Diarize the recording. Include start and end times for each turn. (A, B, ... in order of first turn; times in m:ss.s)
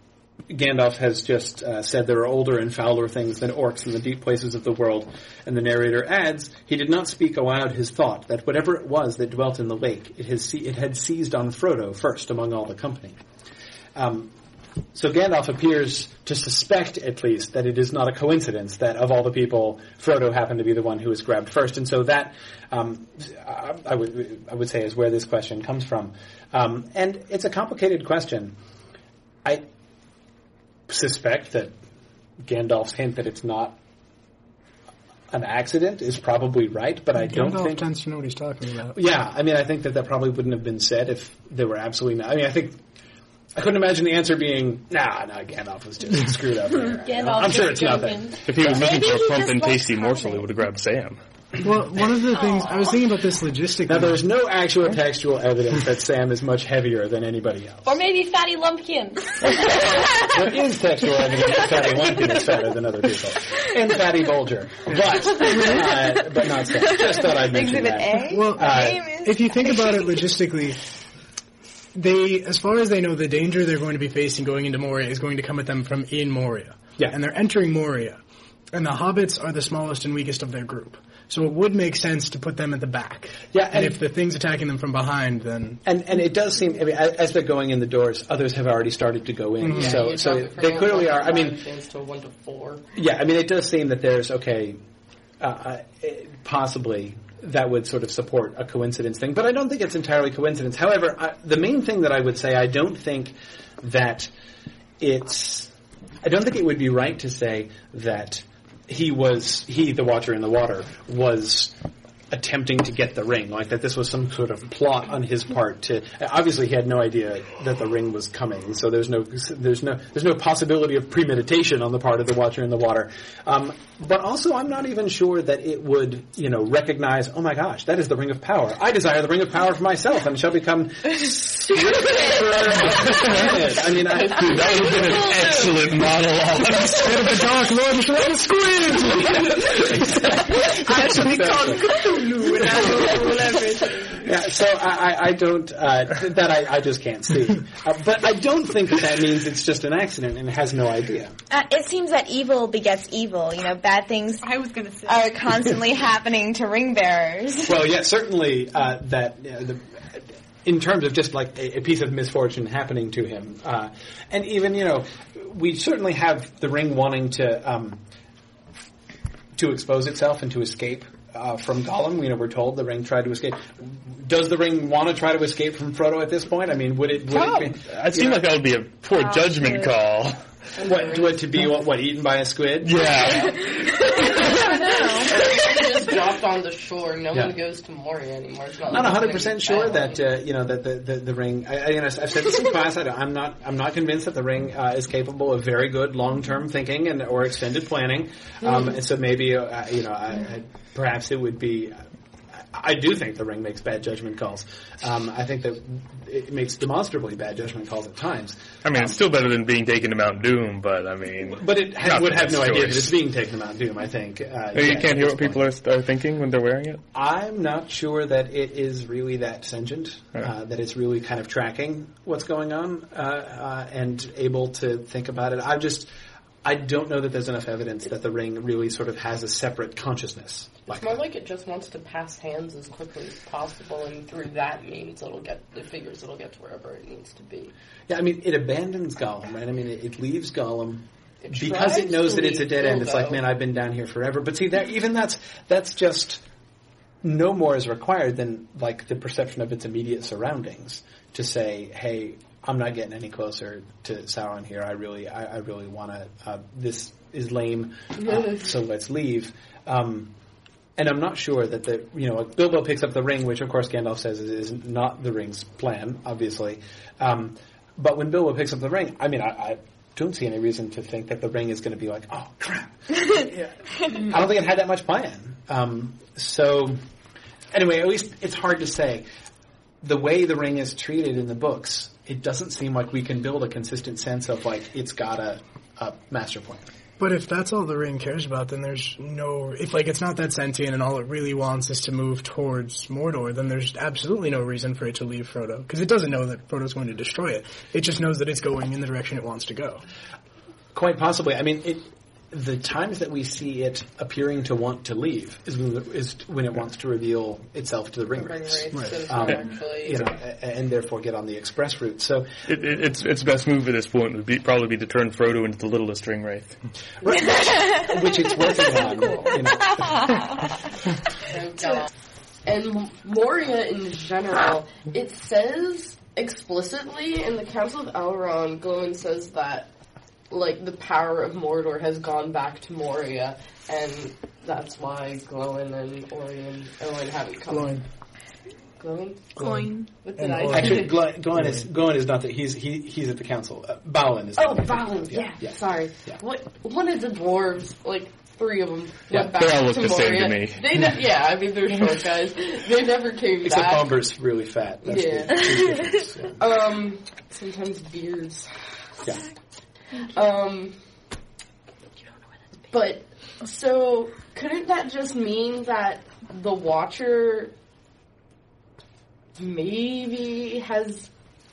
0:00.5-0:13.2 A
0:13.9-0:14.3 A
0:14.9-0:28.6 A
0:30.9-0:31.7 A
0:32.4-0:33.8 A
0:35.3-0:37.8 A
0:37.2-0:39.0 B
0:38.9-0:42.8 A
0:43.5-0:48.9 A
0:46.8-0:50.5 C
0:48.4-0:51.2 D
0:51.6-0:54.2 B
0:52.3-0:52.8 C
0:53.8-0:58.0 A
0:57.8-1:00.3 C
1:00.2-1:09.0 A
1:07.2-1:10.1 E
1:08.3-1:10.8 B
1:11.9-1:18.2 B
1:18.7-1:25.8 B
1:23.5-1:24.0 A
1:25.8-1:31.6 A
1:29.6-1:30.1 B
1:29.7-1:32.8 F
1:32.9-1:34.8 A
1:35.4-1:44.3 A
1:45.0-1:45.7 A
1:46.2-1:51.7 A
1:52.3-2:14.9 A
2:13.0-2:20.6 D
2:14.4-2:15.0 F
2:17.0-2:19.2 B
2:20.9-2:23.5 B
2:20.9-2:21.8 A
2:21.3-2:21.7 D
2:22.5-2:23.8 G
2:24.2-2:31.4 A
2:31.5-2:34.4 E
2:34.4-2:35.4 G
2:35.0-2:37.8 E
2:37.6-2:48.0 A
2:49.6-2:58.5 A
2:57.3-3:00.4 D
2:59.1-2:59.9 C
3:00.7-3:01.7 F
3:00.8-3:03.2 A
3:02.8-3:04.8 D
3:04.0-3:10.2 F
3:04.4-3:05.4 C
3:08.9-3:22.0 A
3:22.7-3:29.2 A
3:28.8-3:33.1 D
3:31.5-3:35.6 A
3:34.7-3:37.0 D
3:37.1-3:46.1 A
3:46.6-3:51.2 A
3:50.9-3:57.7 F
3:58.1-4:06.4 A
4:01.4-4:03.4 F
4:07.2-4:20.3 A
4:21.0-4:37.0 A
4:37.7-4:39.2 A
4:40.0-4:46.9 A
4:47.2-5:00.0 B
5:00.9-5:12.5 A
5:08.4-5:10.2 F
5:12.7-5:16.8 D
5:17.2-5:20.4 A
5:21.5-5:22.1 F
5:22.6-5:29.9 F
5:30.5-5:38.0 F
5:37.7-5:38.0 B
5:39.0-5:39.6 F
5:39.6-5:40.1 G
5:39.6-5:41.8 B
5:40.2-5:41.2 F
5:40.7-5:45.7 A
5:44.6-5:54.2 F
5:49.4-5:50.9 D
5:53.6-5:56.5 A
5:55.0-5:55.7 F
5:56.6-5:58.9 F
6:00.2-6:01.0 F
6:02.9-6:07.7 F
6:09.6-6:11.3 F